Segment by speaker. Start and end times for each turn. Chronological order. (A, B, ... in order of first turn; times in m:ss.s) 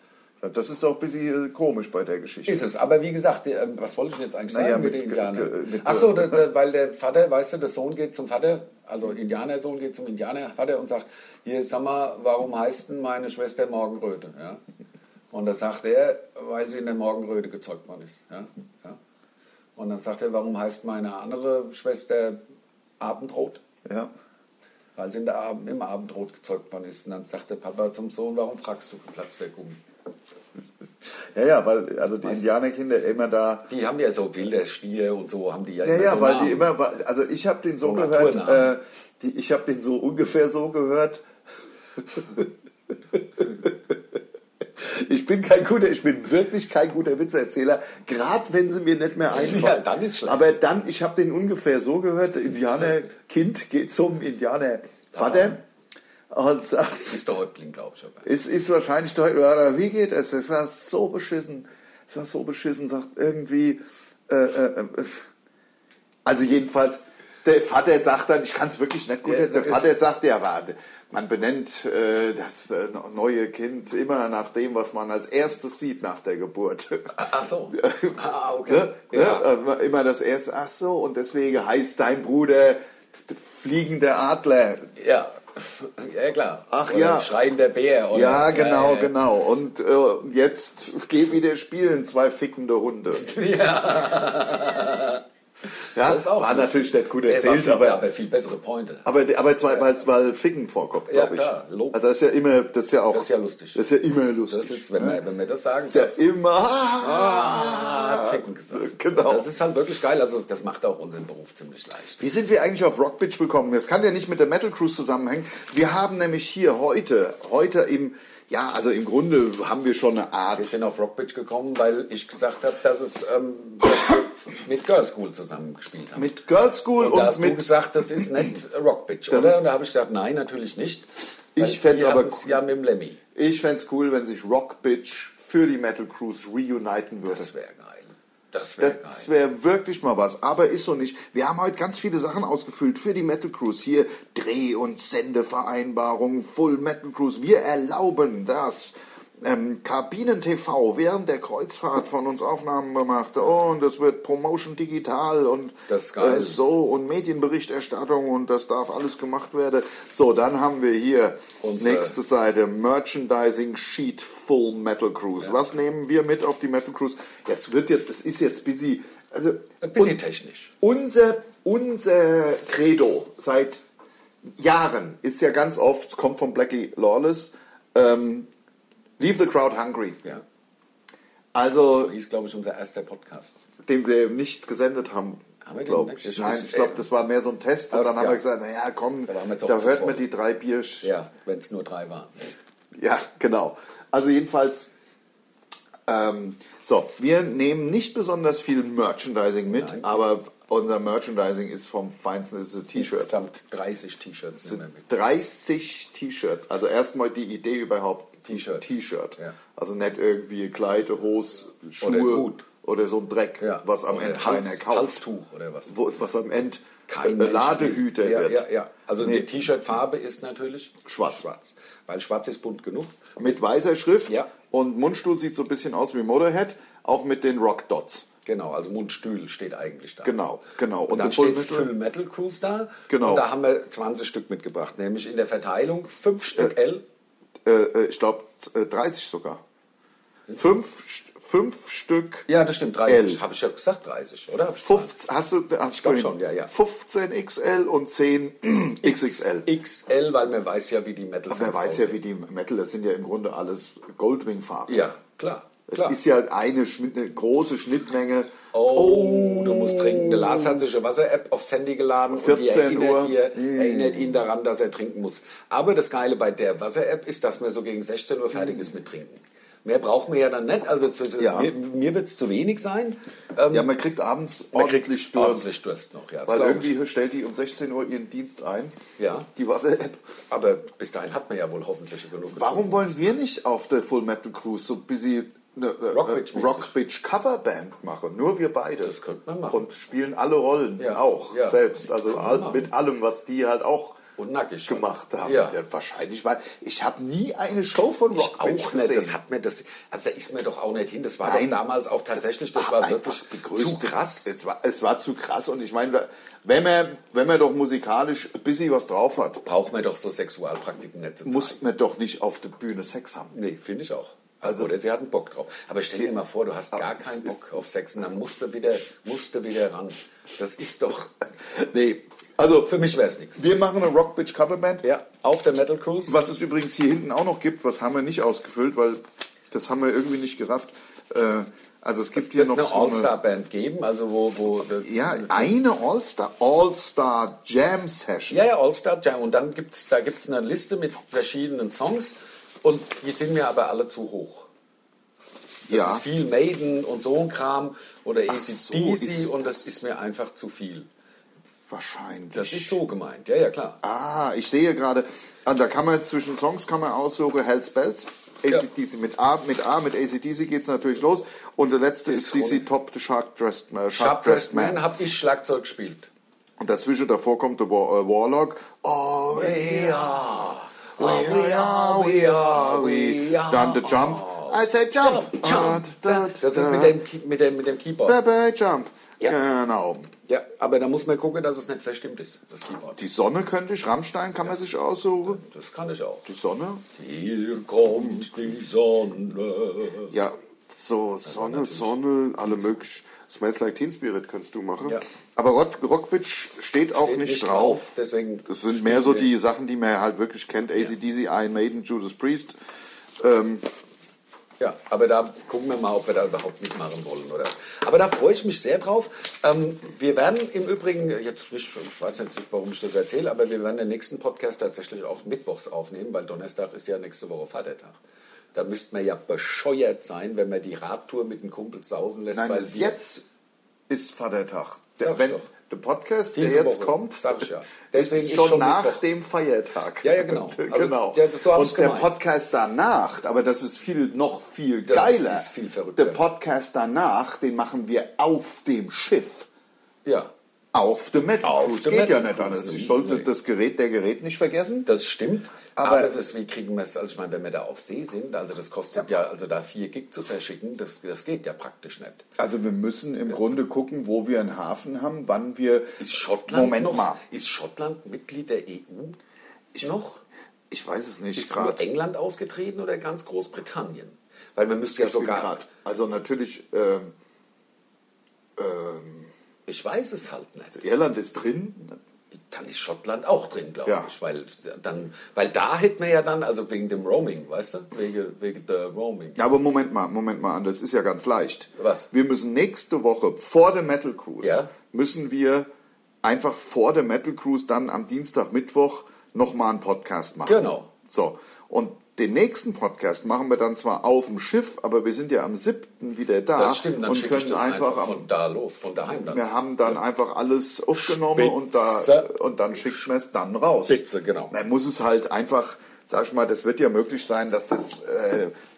0:00.4-0:02.6 A
0:02.4-0:14.6 B
0:04.5-0:06.4 A
0:15.3-0:19.0 B
0:19.8-0:22.4 B
0:23.0-0:23.6 B
0:23.8-0:24.1 A
0:25.0-0:29.8 B
0:31.3-0:33.7 A
0:33.7-0:36.7 B
0:35.8-0:41.2 A
0:37.8-0:38.7 B
0:42.0-0:42.5 A
0:43.4-0:43.9 A
0:44.8-0:55.6 A
0:49.3-0:50.4 B
0:55.1-0:55.6 B
0:56.3-0:57.2 A
0:57.1-0:58.3 B
0:58.2-1:05.2 A
1:06.2-1:17.2 A
1:09.2-1:09.9 B
1:17.1-1:19.5 B
1:17.7-1:24.9 A
1:25.0-1:29.1 B
1:26.7-1:27.3 A
1:28.1-1:33.3 A
1:33.1-1:35.2 B
1:35.9-1:39.0 B
1:35.9-1:38.1 A
1:39.0-1:45.2 A
1:41.1-1:42.0 B
1:43.1-1:43.8 B
1:44.5-1:46.2 B
1:45.7-1:49.5 A
1:47.0-1:52.2 B
1:52.2-2:00.7 A
2:00.6-2:06.3 B
2:06.2-2:07.7 A
2:07.0-2:13.2 B
2:09.3-2:09.6 A
2:11.5-2:12.6 A
2:13.3-2:17.5 A
2:17.2-2:19.3 B
2:18.8-2:50.2 A
2:35.9-2:36.6 B
2:41.6-2:42.1 B
2:49.8-2:50.7 B
2:50.8-2:53.8 A
2:54.6-2:58.5 A
2:59.2-3:00.2 A
3:01.5-3:02.1 A
3:02.0-3:03.6 B
3:03.8-3:11.1 A
3:05.6-3:07.0 B
3:07.9-3:08.4 B
3:09.2-3:10.3 B
3:11.0-3:12.6 B
3:12.9-3:14.9 A
3:16.1-3:23.3 A
3:19.7-3:20.2 B
3:22.9-3:25.0 B
3:24.6-3:35.2 A
3:28.4-3:29.6 B
3:32.0-3:32.7 B
3:33.6-3:36.0 B
3:35.9-3:38.6 A
3:37.1-3:43.3 B
3:39.2-3:39.4 A
3:41.0-3:41.4 A
3:43.4-3:48.2 A
3:48.4-3:50.4 B
3:50.2-3:51.9 A
3:51.1-3:57.0 B
3:53.1-3:53.4 A
3:57.6-3:59.6 A
4:00.5-4:02.5 A
4:02.5-4:05.1 B
4:03.0-4:03.4 A
4:04.8-4:09.7 A
4:05.9-4:06.7 B
4:09.0-4:12.2 B
4:11.5-4:15.1 A
4:14.9-4:16.2 B
4:15.9-4:20.8 A
4:18.7-4:33.9 B
4:22.3-4:24.4 A
4:31.4-4:31.7 A
4:33.7-4:35.7 A
4:34.7-4:37.0 B
4:36.5-4:39.0 A
4:39.2-4:39.5 B
4:39.5-4:40.2 A
4:40.5-4:43.3 B
4:42.4-4:49.1 A
4:46.1-4:46.9 B
4:49.0-4:49.8 B
4:49.7-4:54.2 A
4:51.0-4:52.9 B
4:54.4-4:55.8 B
4:54.9-4:59.4 A
4:58.3-5:04.5 B
5:01.4-5:01.8 A
5:02.4-5:09.6 A
5:09.6-5:11.8 B
5:11.4-5:13.5 A
5:13.5-5:21.4 B
5:14.6-5:14.9 A
5:16.9-5:17.6 A
5:21.6-5:22.9 A
5:22.8-5:23.6 B
5:23.6-5:25.0 A
5:25.0-5:26.4 B
5:26.3-5:33.3 A
5:32.4-5:35.7 B
5:34.8-5:38.6 A
5:38.5-5:44.7 B
5:45.9-5:46.2 A
5:45.9-5:51.1 B
5:48.5-5:49.9 A
5:51.9-5:53.0 A
5:52.5-5:54.0 B
5:54.0-6:05.0 A
6:02.2-6:02.8 B
6:04.1-6:06.3 B
6:06.8-6:17.2 A
6:09.5-6:18.4 B
6:18.2-6:20.3 A
6:20.5-6:23.2 B
6:23.2-6:25.6 A
6:25.5-6:26.5 B
6:26.4-6:27.0 A
6:27.1-6:30.3 B
6:28.1-6:28.5 A
6:30.3-6:42.8 A
6:31.4-6:32.2 B
6:37.2-6:39.5 B
6:43.4-6:43.9 A
6:44.8-6:58.2 B
6:58.7-7:03.2 B
7:02.5-7:03.4 A
7:04.1-7:19.7 A
7:05.2-7:05.7 B
7:06.5-7:09.2 B
7:10.2-7:12.3 B
7:15.1-7:16.4 B
7:20.2-7:20.5 B
7:20.9-7:25.1 A
7:21.6-7:23.5 B
7:25.0-7:32.4 B
7:26.0-7:26.4 A
7:32.6-7:37.4 A
7:36.2-7:39.4 B
7:40.0-7:40.4 B
7:40.9-7:42.0 A
7:41.6-7:45.8 B
7:45.2-7:47.3 A
7:48.8-7:49.5 A
7:49.9-7:51.0 B
7:50.9-7:52.2 A
7:52.5-7:59.6 B
7:54.0-7:54.3 A
7:59.6-8:05.9 A
8:02.0-8:02.3 B
8:04.6-8:04.9 B
8:06.4-8:18.5 A
8:10.6-8:11.1 B
8:16.7-8:20.2 B
8:19.5-8:28.7 A
8:21.1-8:22.5 B
8:24.1-8:24.7 B